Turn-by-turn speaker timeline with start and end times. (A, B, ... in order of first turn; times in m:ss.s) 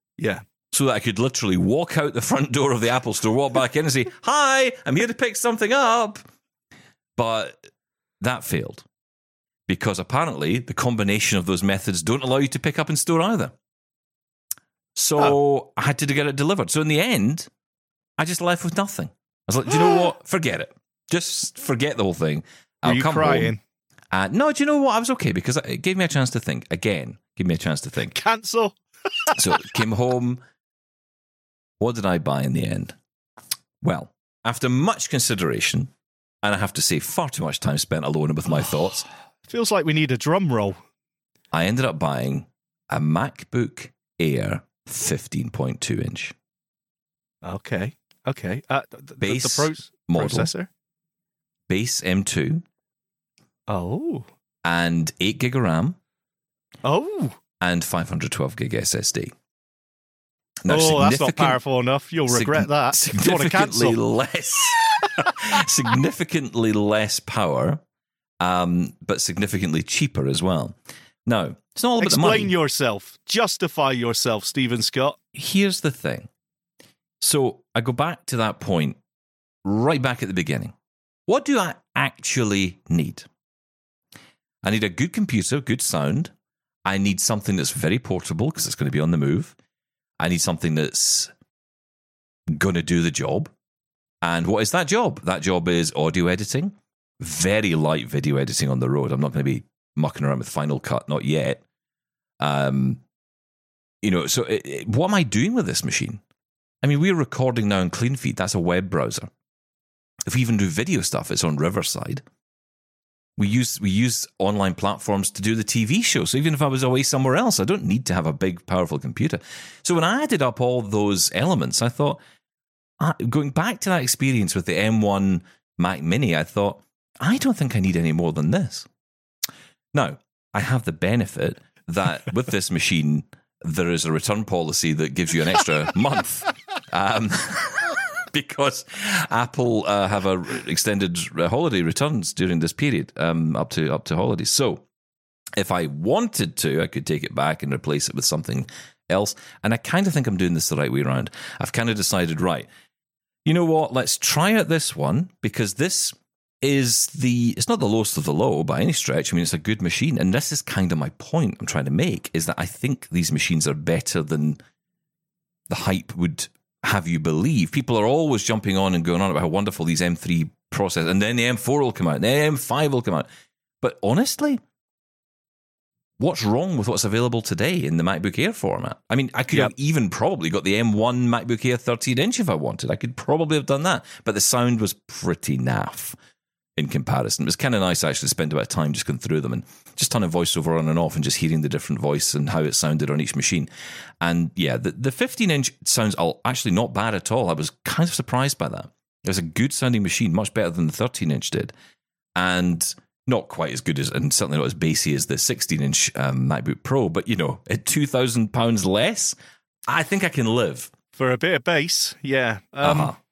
0:00.2-0:00.4 A
0:00.7-0:06.2 B
0:07.2-0:07.6 B
0:08.2-0:08.8 B
0:09.7-0:13.5 B
0:15.0-0:17.5 B
0:18.2-0:23.5 B
0:22.8-0:23.6 A
0:24.1-0:28.2 B
0:28.1-0:29.4 A
0:29.3-0:30.4 B
0:31.8-0:33.0 B
0:33.8-0:35.9 B
0:36.4-0:39.1 B
0:39.5-0:40.8 A
0:41.5-0:46.3 B
0:47.4-0:50.7 A
0:49.2-0:50.5 B
0:51.7-0:52.6 B
0:53.7-0:54.3 A
0:54.6-0:56.0 B
0:56.8-0:57.4 A
0:57.6-0:59.3 B
1:00.6-1:01.6 B
1:00.7-1:04.0 A
1:02.3-1:07.8 B
1:08.4-1:12.5 B
1:12.0-1:15.2 A
1:15.3-1:16.3 B
1:17.2-1:19.0 B
1:19.6-1:20.7 B
1:21.3-1:23.3 B
1:24.6-1:26.3 B
1:26.8-1:29.5 B
1:30.2-1:31.3 B
1:32.5-1:33.5 B
1:34.2-1:41.6 B
1:42.4-1:43.0 B
1:44.0-1:46.2 B
1:46.8-1:49.3 B
1:50.2-1:52.2 B
1:53.4-2:02.2 B
2:03.0-2:08.9 B
2:09.9-2:24.8 B
2:25.6-2:32.7 B
2:33.4-2:44.6 B
2:45.7-2:53.2 B
2:53.8-2:54.6 B
2:56.2-3:06.2 B
3:06.8-3:13.7 B
3:14.2-3:21.7 B
3:22.3-3:29.3 B
3:29.9-3:30.9 B
3:31.1-3:33.2 A
3:32.8-3:33.2 B